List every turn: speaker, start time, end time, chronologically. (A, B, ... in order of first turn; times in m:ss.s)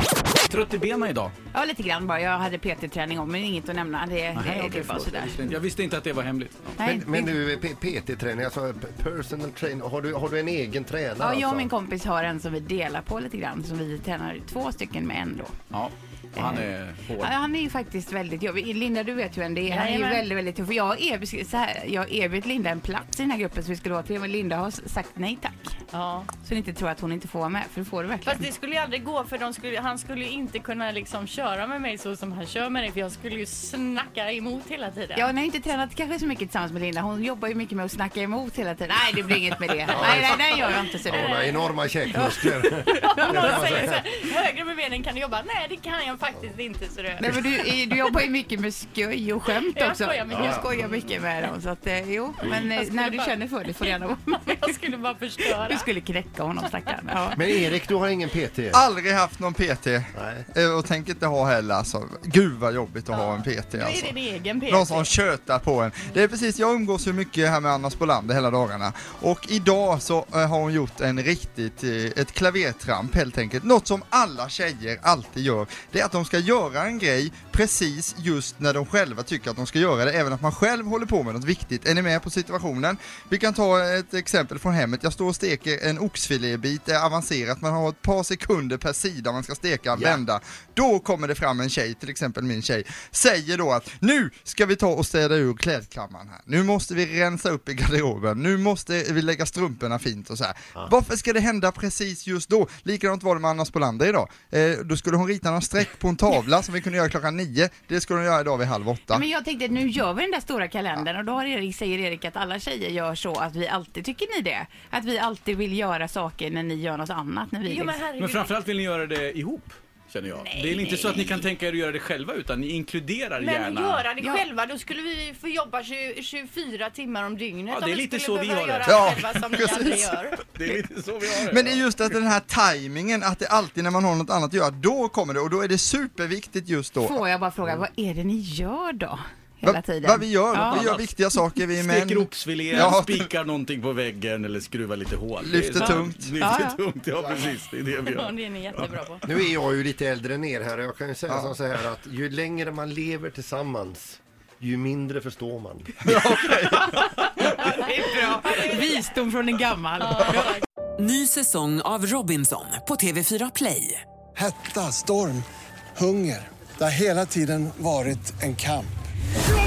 0:00.5-0:01.3 A
0:01.5-0:05.6 B
0:04.4-0:06.8 A
0:06.8-0:07.4 B
0:06.8-0:11.7 C
0:11.2-0:15.6 B
0:15.7-0:17.3 A
0:16.4-0:25.7 B
0:19.7-0:20.2 D
0:25.9-0:26.3 D
0:26.4-0:28.5 B
0:28.2-0:35.3 D
0:35.2-0:41.4 B
0:39.9-0:44.0 C
0:40.0-0:47.4 D
0:47.2-0:54.7 B
0:49.5-0:51.0 D
0:50.3-0:50.7 C
0:52.4-0:55.9 D
0:55.6-0:57.4 B
0:57.4-0:58.8 C
0:58.7-1:49.2 E
1:00.2-1:00.4 C
1:03.1-1:05.1 D
1:49.1-1:58.0 B
1:57.6-1:58.6 D
1:58.2-2:04.0 A
2:00.3-2:01.3 D
2:03.4-2:10.8 D
2:07.7-2:09.4 A
2:08.8-2:10.2 E
2:10.6-2:11.8 A
2:11.4-2:17.2 E
2:17.0-2:20.9 B
2:19.6-2:23.3 E
2:20.6-2:21.1 A
2:21.8-2:28.9 A
2:25.4-2:26.4 E
2:25.8-2:26.8 B
2:28.0-2:29.2 D
2:29.2-2:36.0 C
2:36.0-2:37.0 E
2:37.5-2:40.6 B
2:38.5-2:38.8 D
2:40.0-2:40.6 D
2:41.0-2:44.0 F
2:44.4-2:48.9 G